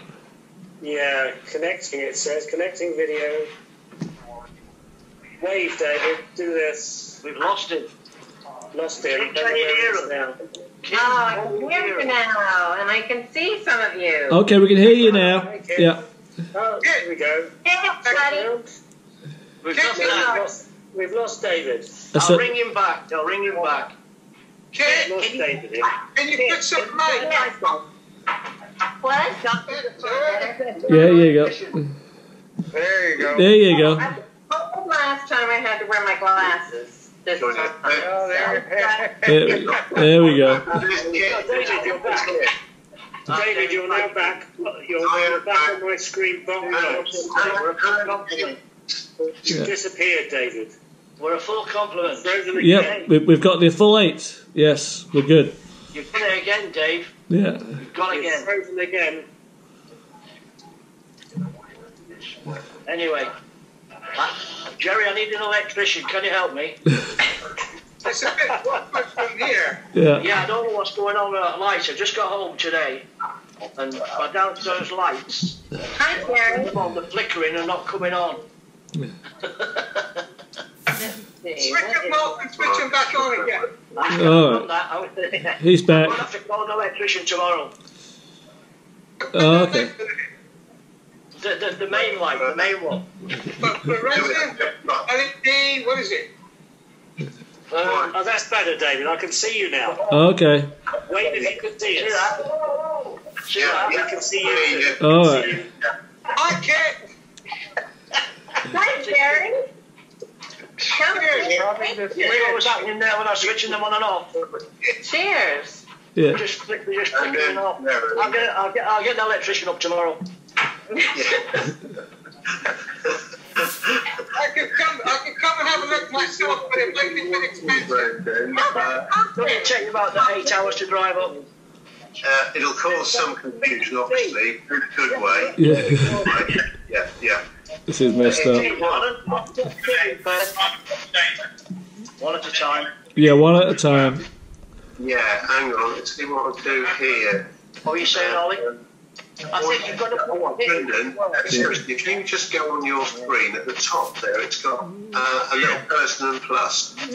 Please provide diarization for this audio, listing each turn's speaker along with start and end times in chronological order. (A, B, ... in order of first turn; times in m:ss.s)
0:00.8-0:03.5 A
0:05.4-0:07.2 A
0:07.2-0:07.9 B
0:08.7-0:10.3 A
0:09.1-0:10.2 B
0:10.8-0:12.1 B
0:10.9-0:14.4 C
0:14.3-0:16.0 D
0:15.0-0:15.9 A
0:16.5-0:17.5 A
0:17.6-0:18.5 C
0:18.0-0:18.4 E
0:18.1-0:18.7 A
0:19.6-0:20.5 B
0:19.7-0:20.4 E
0:19.9-0:21.9 A
0:20.0-0:20.4 C
0:22.1-0:22.5 D
0:22.2-0:23.9 B
0:24.7-0:25.1 E
0:24.8-0:25.9 A
0:26.1-0:27.5 E
0:26.3-0:27.8 B
0:27.0-0:27.8 C
0:29.0-0:31.2 C
0:29.6-0:30.6 E
0:30.8-0:31.8 D
0:32.7-0:33.5 F
0:33.2-0:34.1 D
0:33.8-0:39.6 C
0:37.4-0:38.1 G
0:37.9-0:40.0 F
0:39.2-0:40.6 D
0:39.5-0:42.5 G
0:41.0-0:42.1 B
0:41.2-0:42.4 A
0:43.3-0:44.3 B
0:43.3-0:47.3 A
0:45.0-0:45.8 G
0:46.6-0:49.4 G
0:46.7-0:48.6 B
0:49.4-0:50.7 A
0:51.2-0:53.1 B
0:52.1-0:53.0 A
0:52.6-0:55.6 D
0:55.9-0:57.1 B
0:57.3-0:57.8 D
0:57.8-0:58.5 B
0:58.1-0:59.2 A
1:02.8-1:03.3 B
1:04.1-1:06.8 B
1:08.0-1:09.8 E
1:09.9-1:10.3 D
1:10.2-1:13.0 B
1:13.8-1:15.6 B
1:16.0-1:16.7 C
1:16.2-1:18.4 B
1:19.4-1:20.2 B
1:20.9-1:22.2 C
1:21.6-1:23.6 E
1:22.6-1:23.6 G
1:23.9-1:27.7 B
1:24.1-1:24.7 D
1:25.6-1:26.2 D
1:29.2-1:30.0 E
1:29.3-1:29.9 D
1:31.4-1:33.0 B
1:31.9-1:32.8 G
1:33.6-1:36.3 E
1:34.0-1:35.1 G
1:37.7-1:38.1 B
1:37.8-1:38.1 G
1:37.8-1:40.0 A
1:40.1-1:40.7 D
1:41.0-1:42.3 A
1:41.9-1:42.5 B
1:43.4-1:44.1 B
1:43.5-1:45.1 G
1:43.6-1:45.7 A
1:45.0-1:45.6 D
1:46.3-1:47.0 E
1:48.7-1:49.6 C
1:49.0-1:49.5 B
1:50.9-1:51.6 E
1:50.9-1:52.5 C
1:51.4-1:52.8 F
1:52.1-1:54.4 B
1:55.0-1:55.8 C
1:56.2-1:56.4 D
1:56.3-2:00.2 B
1:57.1-1:58.4 G
2:00.9-2:01.6 C
2:01.1-2:01.7 G
2:02.7-2:04.2 G
2:04.3-2:09.7 E
2:06.1-2:09.1 G
2:08.6-2:10.7 C
2:09.3-2:11.4 B
2:12.2-2:17.4 G
2:13.1-2:14.4 B
2:15.1-2:16.4 B
2:15.6-2:16.2 D
2:17.9-2:18.6 D
2:18.2-2:19.1 G
2:18.4-2:20.3 B
2:19.7-2:20.2 G
2:22.2-2:22.9 B
2:23.1-2:24.2 D
2:25.0-2:28.8 G
2:27.8-2:28.6 B
2:29.5-2:36.9 G
2:29.5-2:31.6 B